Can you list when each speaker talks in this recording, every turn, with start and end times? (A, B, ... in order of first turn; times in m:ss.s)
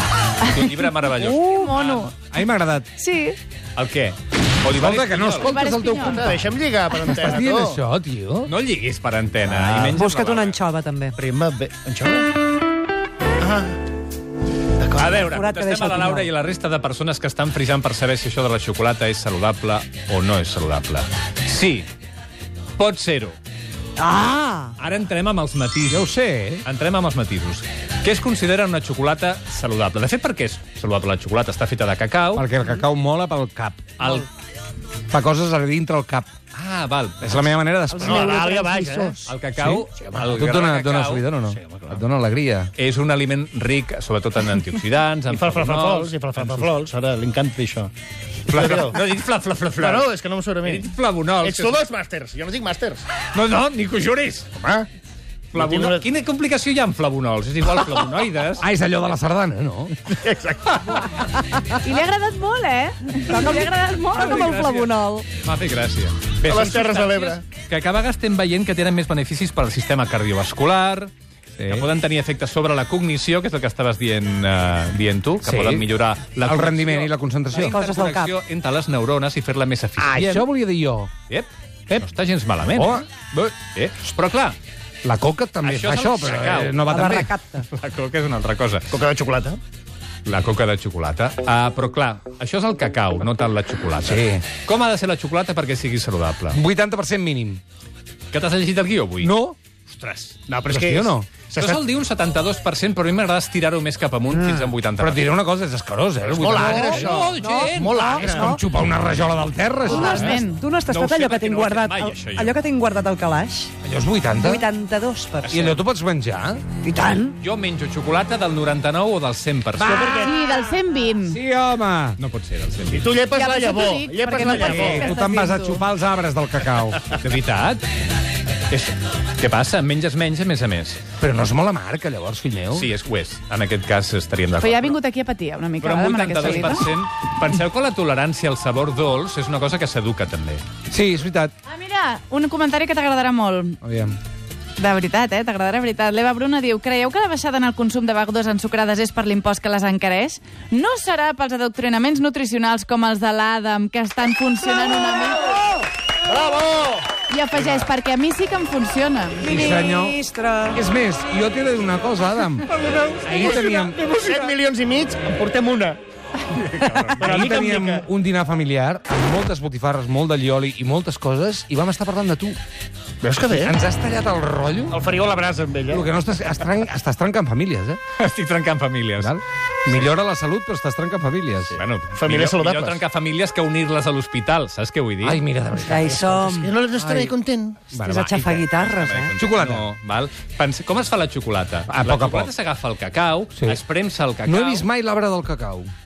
0:00.4-0:02.1 A
0:00.4-0:02.1 B
0:02.2-0:02.9 C
0:03.0-0:03.4 B
0:03.8-0:05.6 A
0:04.7-0:06.4 C
0:05.4-0:06.3 B
0:06.0-0:07.8 D
0:07.0-0:08.5 C
0:08.4-0:10.6 A
0:09.5-0:09.9 D
0:09.8-0:11.2 E
0:11.2-0:12.3 D
0:13.4-0:13.8 D
0:14.8-0:15.2 D
0:15.0-0:21.9 A
0:15.2-0:16.3 E
0:22.8-0:23.4 A
0:24.0-0:24.7 E
0:24.8-0:26.1 A
0:25.9-0:26.6 C
0:26.6-0:32.5 A
0:32.3-0:34.2 C
0:34.0-0:34.3 A
0:35.1-0:36.3 C
0:36.5-0:37.6 A
0:37.2-0:38.6 C
0:37.9-0:39.2 E
0:38.0-0:39.2 D
0:39.3-0:41.3 A
0:39.6-0:42.7 C
0:41.5-0:42.0 D
0:42.8-0:46.7 A
0:45.3-0:47.9 D
0:48.5-0:50.1 A
0:48.5-0:49.0 D
0:49.8-0:53.0 D
0:50.6-0:51.8 A
0:53.3-0:54.5 A
0:54.6-0:54.9 D
0:55.5-0:56.1 D
0:55.5-0:58.7 A
0:58.6-1:00.0 C
1:00.1-1:01.1 D
1:01.8-1:04.4 B
1:03.2-1:05.2 E
1:04.1-1:20.4 A
1:06.4-1:07.4 D
1:15.4-1:15.9 C
1:16.4-1:17.8 C
1:17.6-1:18.3 E
1:20.0-1:21.1 C
1:21.3-1:23.0 A
1:22.7-1:23.5 C
1:23.6-1:24.6 A
1:25.0-1:27.3 C
1:25.6-1:27.2 A
1:26.3-1:26.7 D
1:26.8-1:27.7 E
1:27.7-1:28.9 A
1:28.9-1:29.6 D
1:30.3-1:36.6 A
1:34.0-1:34.4 C
1:36.5-1:37.6 C
1:38.3-1:39.3 A
1:39.2-1:39.6 C
1:39.9-1:41.8 D
1:40.0-1:40.3 A
1:40.7-1:41.3 C
1:41.5-1:45.3 A
1:45.0-1:47.1 C
1:46.3-1:48.6 D
1:46.3-1:48.1 A
1:46.7-1:48.6 E
1:48.1-1:50.4 C
1:49.8-1:53.7 E
1:49.9-1:50.6 B
1:50.1-1:52.6 A
1:53.8-1:54.7 C
1:54.3-1:55.6 E
1:55.5-1:56.6 C
1:55.5-1:55.8 A
1:56.8-1:57.3 E
1:57.4-2:00.2 A
1:59.8-2:01.4 B
1:59.8-2:02.2 C
1:59.9-2:00.3 D
2:02.2-2:03.2 A
2:02.9-2:05.1 D
2:03.3-2:05.8 B
2:04.4-2:07.0 C
2:07.1-2:07.8 A
2:08.7-2:11.0 A
2:11.2-2:12.9 C
2:12.7-2:15.0 A
2:14.6-2:16.9 B
2:15.8-2:20.6 A
2:20.9-2:21.5 C
2:21.7-2:23.8 B
2:23.8-2:24.2 C
2:24.8-2:35.6 B
2:36.2-2:37.2 D
2:37.2-2:39.6 B
2:39.4-2:40.8 E
2:39.5-2:42.7 C
2:43.1-2:46.0 D
2:43.2-2:44.0 C
2:46.5-2:47.2 A
2:47.2-2:52.6 C
2:47.2-2:48.1 D
2:53.2-2:53.8 D
2:53.5-2:55.0 C
2:54.9-2:56.1 D
2:55.9-2:58.0 C
2:58.2-3:00.3 A
2:59.2-3:01.8 C
3:01.7-3:05.4 A
3:02.1-3:03.0 D
3:05.2-3:07.3 C
3:05.8-3:06.7 E
3:06.4-3:07.8 D
3:07.9-3:08.7 C
3:07.9-3:09.3 E
3:08.8-3:14.9 A
3:09.3-3:09.9 C
3:11.9-3:12.5 C
3:13.6-3:13.8 C
3:14.4-3:15.9 C